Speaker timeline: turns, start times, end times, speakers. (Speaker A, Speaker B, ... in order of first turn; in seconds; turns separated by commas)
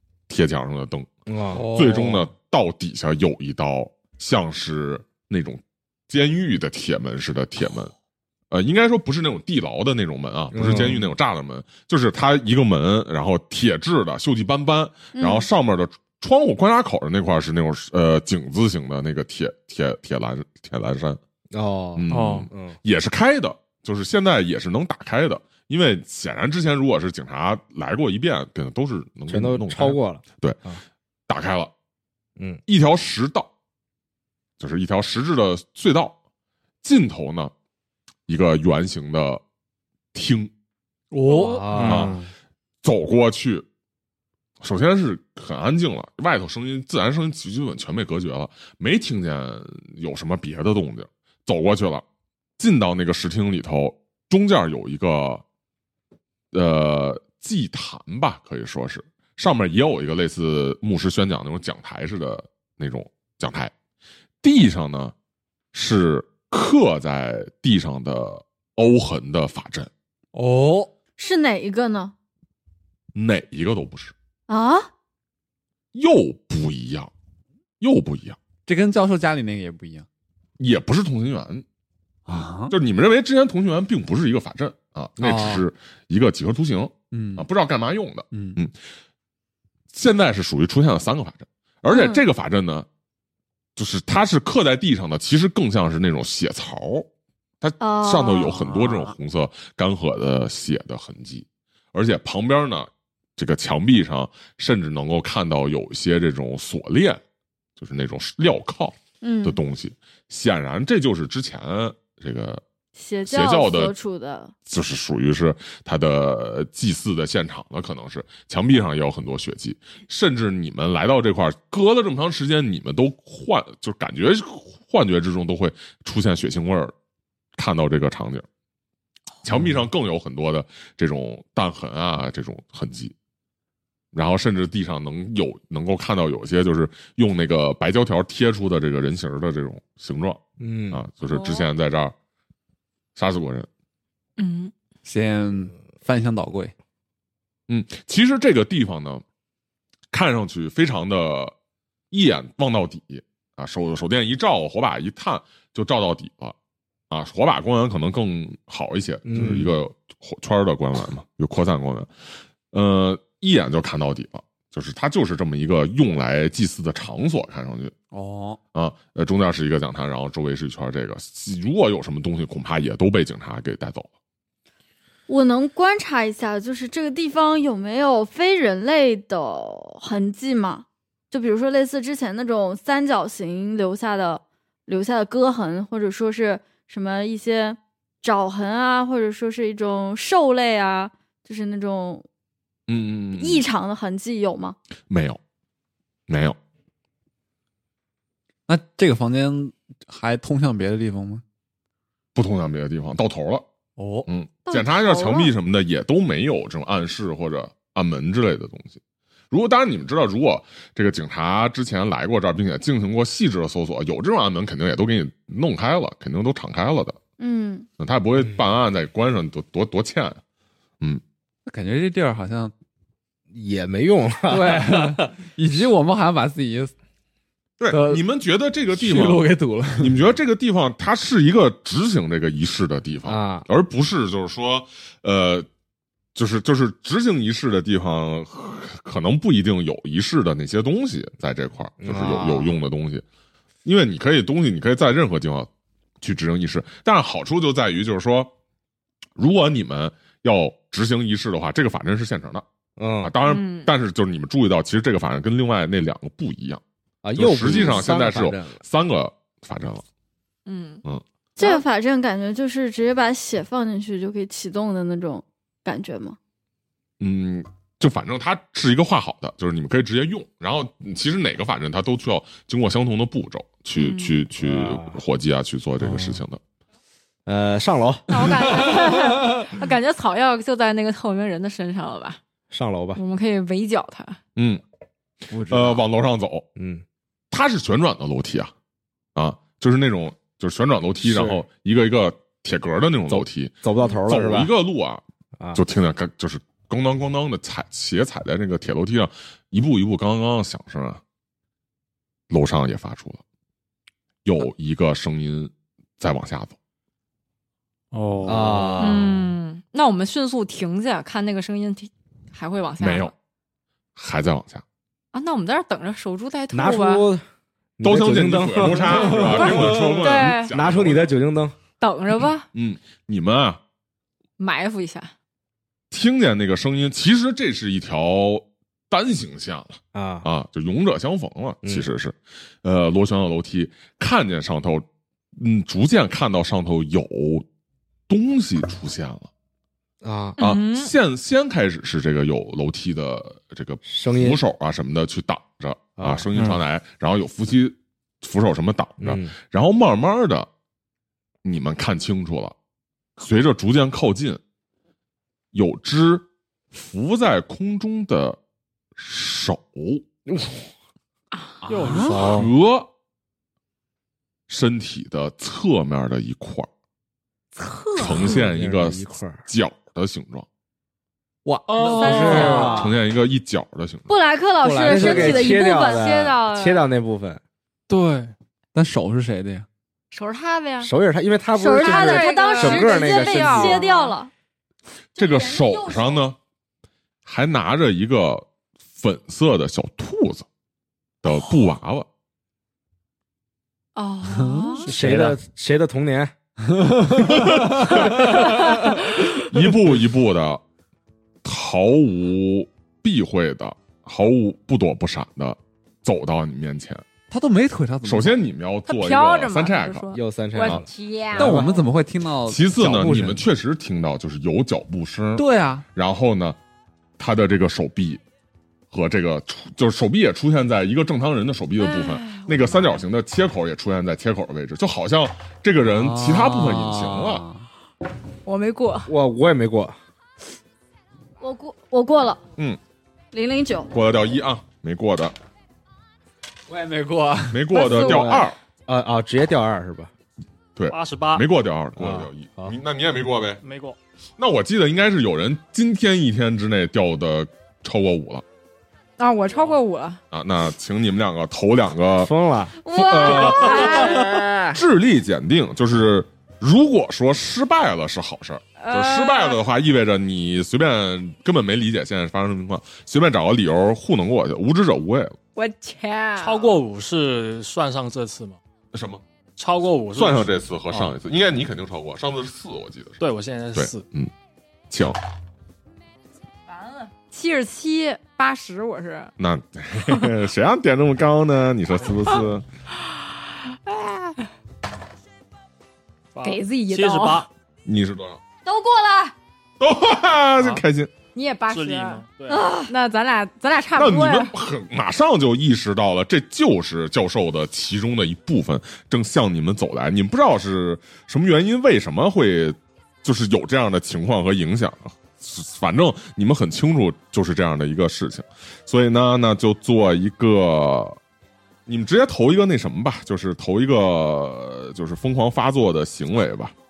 Speaker A: 0.3-1.1, Speaker B: 1.3-1.6, Speaker C: 1.5-2.3, Speaker A: 1.6-7.9, Speaker A: 8.5-21.2, Speaker B: 10.5-11.1, Speaker D: 15.1-15.5, Speaker B: 21.5-22.8, Speaker A: 21.9-30.6, Speaker E: 22.1-22.5, Speaker B: 29.3-30.8, Speaker A: 31.3-31.7, Speaker A: 32.7-33.5, Speaker A: 34.6-36.1, Speaker A: 36.8-37.5, Speaker A: 38.3-39.4, Speaker A: 40.1-40.5, Speaker C: 41.1-41.9, Speaker B: 41.3-42.1, Speaker F: 41.3-41.6, Speaker E: 41.7-42.3, Speaker A: 41.8-42.1, Speaker A: 42.8-43.6, Speaker A: 44.6-52.0, Speaker A: 52.6-55.4, Speaker A: 56.5-63.7, Speaker A: 64.4-65.1, Speaker A: 65.7-69.9, Speaker C: 70.3-70.9, Speaker D: 71.2-72.1, Speaker A: 73.1-74.1, Speaker D: 74.5-74.9, Speaker A: 75.9-77.1, Speaker A: 77.8-78.4, Speaker C: 78.7-80.0, Speaker A: 80.6-81.6, Speaker C: 82.3-82.7, Speaker A: 82.7-88.7, Speaker C: 85.2-85.6, Speaker C: 87.1-87.5, Speaker C: 88.3-88.6, Speaker A: 89.9-92.9, Speaker D: 91.9-92.2, Speaker A: 93.8-97.1, Speaker A: 97.6-107.2, Speaker D: 97.8-98.7, Speaker A: 107.8-112.6, Speaker D: 109.2-109.6, Speaker D: 113.0-114.5, Speaker A: 113.2-113.9, Speaker A: 114.7-126.9, Speaker A: 127.6-128.4, Speaker A: 129.4-133.1, Speaker A: 134.1-142.1, Speaker B: 140.6-141.0, Speaker F: 141.3-141.7, Speaker A: 143.2-143.7, Speaker F: 144.4-144.7, Speaker C: 145.0-146.7, Speaker A: 147.7-149.2, Speaker A: 150.1-151.5, Speaker A: 152.1-156.5, Speaker A: 157.1-162.1, Speaker B: 159.2-159.7, Speaker A: 162.7-167.9, Speaker C: 168.1-168.6, Speaker A: 168.7-174.1, Speaker D: 175.3-192.2, Speaker A: 192.9-193.6, Speaker D: 193.3-194.8, Speaker A: 195.1-195.4, Speaker A: 196.3-196.6, Speaker C: 198.7-201.4, Speaker A: 202.3-203.6, Speaker C: 204.0-204.3, Speaker A: 204.3-209.0, Speaker D: 204.7-205.5, Speaker A: 209.5-217.2, Speaker D: 217.4-217.9, Speaker A: 218.0-220.4, Speaker C: 221.7-222.7, Speaker B: 223.5-225.2, Speaker C: 224.5-226.9, Speaker A: 227.8-235.7, Speaker C: 227.9-228.2, Speaker C: 228.9-230.2, Speaker B: 233.2-233.7, Speaker A: 236.3-243.2, Speaker B: 242.0-242.7, Speaker A: 243.8-245.7, Speaker A: 246.2-248.5, Speaker A: 249.4-252.6, Speaker B: 253.0-253.3, Speaker A: 253.2-256.8, Speaker F: 253.4-253.9, Speaker B: 257.2-258.8, Speaker A: 257.3-260.0, Speaker F: 260.6-261.0, Speaker D: 261.6-266.4, Speaker F: 261.6-261.8, Speaker A: 267.2-276.6, Speaker F: 273.9-274.4, Speaker B: 274.6-275.2, Speaker C: 276.0-276.4, Speaker B: 277.4-278.2, Speaker F: 278.3-282.4, Speaker B: 282.7-283.2, Speaker F: 283.1-284.4, Speaker A: 284.6-284.8, Speaker C: 285.5-286.0, Speaker A: 285.7-286.6, Speaker B: 286.8-287.0, Speaker A: 287.5-288.7, Speaker A: 289.3-295.2, Speaker B: 291.2-291.6, Speaker B: 293.3-294.7, Speaker A: 295.7-301.2, Speaker A: 302.5-303.4, Speaker A: 304.4-306.8, Speaker E: 308.1-309.3, Speaker B: 308.4-309.3, Speaker F: 309.0-313.3, Speaker A: 313.0-313.3, Speaker A: 314.1-314.8, Speaker F: 315.3-317.3, Speaker B: 316.7-317.4, Speaker B: 318.0-321.7, Speaker A: 318.0-321.3, Speaker F: 319.5-320.7, Speaker F: 322.0-322.7, Speaker A: 322.7-323.8, Speaker F: 324.6-325.3, Speaker A: 326.1-335.0, Speaker B: 330.1-330.5, Speaker A: 335.6-337.6, Speaker A: 338.3-339.5, Speaker B: 340.2-340.6, Speaker F: 340.6-341.1, Speaker A: 340.6-350.7, Speaker B: 344.0-344.6, Speaker B: 346.2-346.4, Speaker B: 349.2-349.5, Speaker A: 351.6-352.7, Speaker A: 353.4-354.6, Speaker A: 355.7-358.6, Speaker A: 359.1-360.2, Speaker F: 361.7-362.4, Speaker E: 361.9-362.7, Speaker C: 362.0-362.5, Speaker A: 362.3-363.1, Speaker A: 364.7-366.9, Speaker F: 367.7-368.6, Speaker A: 368.1-370.6, Speaker B: 368.5-369.6, Speaker C: 371.6-372.9, Speaker E: 371.9-372.8, Speaker B: 372.2-373.2, Speaker D: 372.3-373.0, Speaker F: 372.4-373.0, Speaker A: 372.5-374.3, Speaker D: 374.3-376.9, Speaker B: 374.8-377.6, Speaker F: 375.1-376.9, Speaker E: 378.1-378.5, Speaker C: 378.9-379.9, Speaker F: 380.3-381.1, Speaker B: 381.0-384.0, Speaker D: 381.8-384.5, Speaker F: 381.9-384.4, Speaker D: 385.4-386.4, Speaker A: 385.4-386.6, Speaker A: 387.4-390.6, Speaker A: 391.4-392.3, Speaker F: 394.1-395.1, Speaker C: 394.6-395.0, Speaker E: 395.0-395.6, Speaker B: 395.1-396.5, Speaker A: 397.4-400.8, Speaker A: 401.6-407.3, Speaker C: 407.5-408.6, Speaker A: 408.2-411.1, Speaker F: 409.1-412.0, Speaker B: 410.3-411.9, Speaker C: 411.5-413.6, Speaker A: 412.6-416.8, Speaker C: 415.6-416.0, Speaker A: 417.4-418.4, Speaker A: 419.1-427.6, Speaker F: 422.0-423.2, Speaker C: 426.1-427.8, Speaker F: 428.6-429.3, Speaker B: 429.3-430.1, Speaker D: 431.6-432.6, Speaker D: 433.5-434.1, Speaker A: 434.1-435.5, Speaker C: 436.9-437.8, Speaker A: 437.7-438.8, Speaker F: 437.9-438.6, Speaker B: 438.0-440.3, Speaker A: 440.9-443.8, Speaker E: 441.1-441.6, Speaker B: 442.2-442.9, Speaker E: 443.8-444.2, Speaker A: 444.6-448.6, Speaker F: 449.4-450.4, Speaker A: 450.5-452.5, Speaker B: 452.4-455.0, Speaker D: 453.0-454.5, Speaker A: 453.1-465.6, Speaker F: 459.0-459.8, Speaker F: 465.8-466.9, Speaker E: 466.6-468.8, Speaker A: 469.1-469.4, Speaker E: 469.8-471.3, Speaker A: 470.3-473.4, Speaker E: 473.4-474.2, Speaker A: 473.9-474.5, Speaker A: 475.1-475.4, Speaker F: 476.9-479.5, Speaker A: 479.6-482.8, Speaker F: 480.3-480.5, Speaker F: 484.1-484.6, Speaker E: 486.5-487.7, Speaker F: 486.6-487.7, Speaker A: 488.0-488.6, Speaker D: 488.8-489.5, Speaker A: 490.0-491.3, Speaker F: 491.5-492.4, Speaker E: 491.9-492.9, Speaker D: 492.7-493.1, Speaker F: 493.1-494.7, Speaker A: 494.1-511.4, Speaker A: 512.1-516.9